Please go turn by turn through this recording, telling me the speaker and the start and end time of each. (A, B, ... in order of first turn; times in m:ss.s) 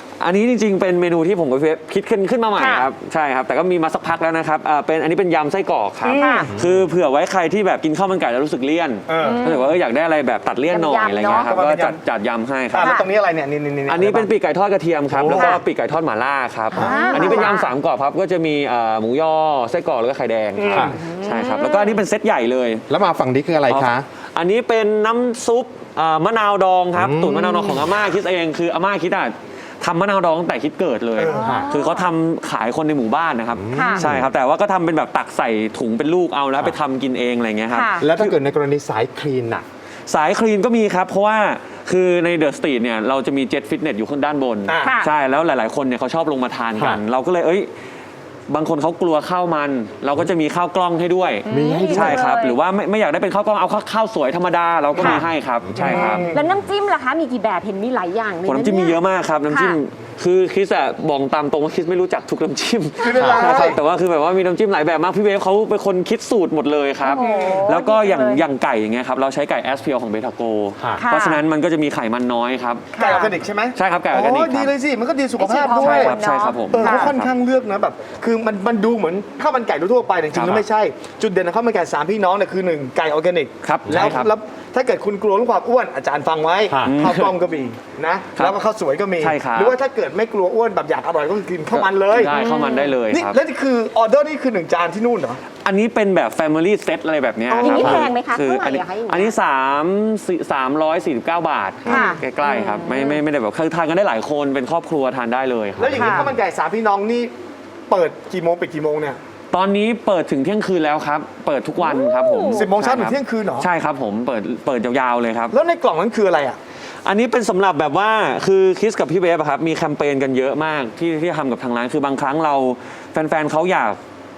0:00.2-0:13.0 A
0:02.6-0:02.9 B
0:06.0-0:06.5 C
0:06.2-0:06.5 B
0:06.5-0:06.9 D
0:09.1-0:09.4 C
0:09.2-0:09.7 B
0:10.7-0:11.5 B
0:11.4-0:12.0 C
0:12.7-0:14.3 C
0:12.7-0:13.1 B
0:13.9-0:22.8 A
0:15.1-0:15.5 D
0:15.3-0:15.6 B
0:16.7-0:17.7 B
0:16.8-0:17.4 D
0:17.1-0:17.5 C
0:20.6-0:20.9 C
0:20.7-0:21.0 D
0:21.0-0:22.0 B
0:22.9-0:24.1 D
0:23.7-0:38.4 A
0:26.9-0:27.9 D
0:31.2-0:32.1 B
0:31.2-0:31.6 C
0:31.4-0:31.7 D
0:33.5-0:34.3 D
0:33.7-0:34.0 B
0:37.7-0:38.1 B
0:38.0-0:39.6 D
0:40.1-0:47.7 A
0:44.7-0:45.0 C
0:44.8-0:45.1 B
0:46.8-0:47.0 D
0:48.5-0:56.3 A
0:51.5-0:52.6 B
0:51.5-0:52.2 D
0:55.0-0:55.3 B
0:55.0-0:56.2 D
0:55.8-0:59.8 B
0:55.8-0:56.4 C
0:58.5-1:13.2 A
1:03.0-1:03.8 C
1:03.2-1:03.7 D
1:03.2-1:03.7 B
1:07.0-1:08.4 B
1:07.2-1:07.7 C
1:10.8-1:11.0 D
1:11.0-1:11.4 B
1:12.9-1:13.3 B
1:13.0-1:16.2 C
1:13.7-1:14.7 A
1:15.4-1:17.1 B
1:15.8-1:17.3 A
1:16.7-1:32.4 C
1:20.3-1:20.6 A
1:23.6-1:24.3 A
1:23.9-1:24.1 D
1:26.7-1:27.0 D
1:26.8-1:27.3 A
1:29.2-1:29.8 A
1:31.7-1:33.4 A
1:32.2-1:33.0 B
1:33.1-1:35.4 C
1:35.6-1:46.3 A
1:37.5-1:39.4 B
1:37.6-1:38.1 D
1:41.8-1:43.2 B
1:41.9-1:42.2 C
1:45.8-1:47.3 C
1:46.0-1:46.3 B
1:47.9-1:49.2 C
1:49.5-1:55.6 A
1:51.8-1:52.7 B
1:52.5-1:53.7 C
1:55.5-1:56.6 C
1:57.0-2:04.0 A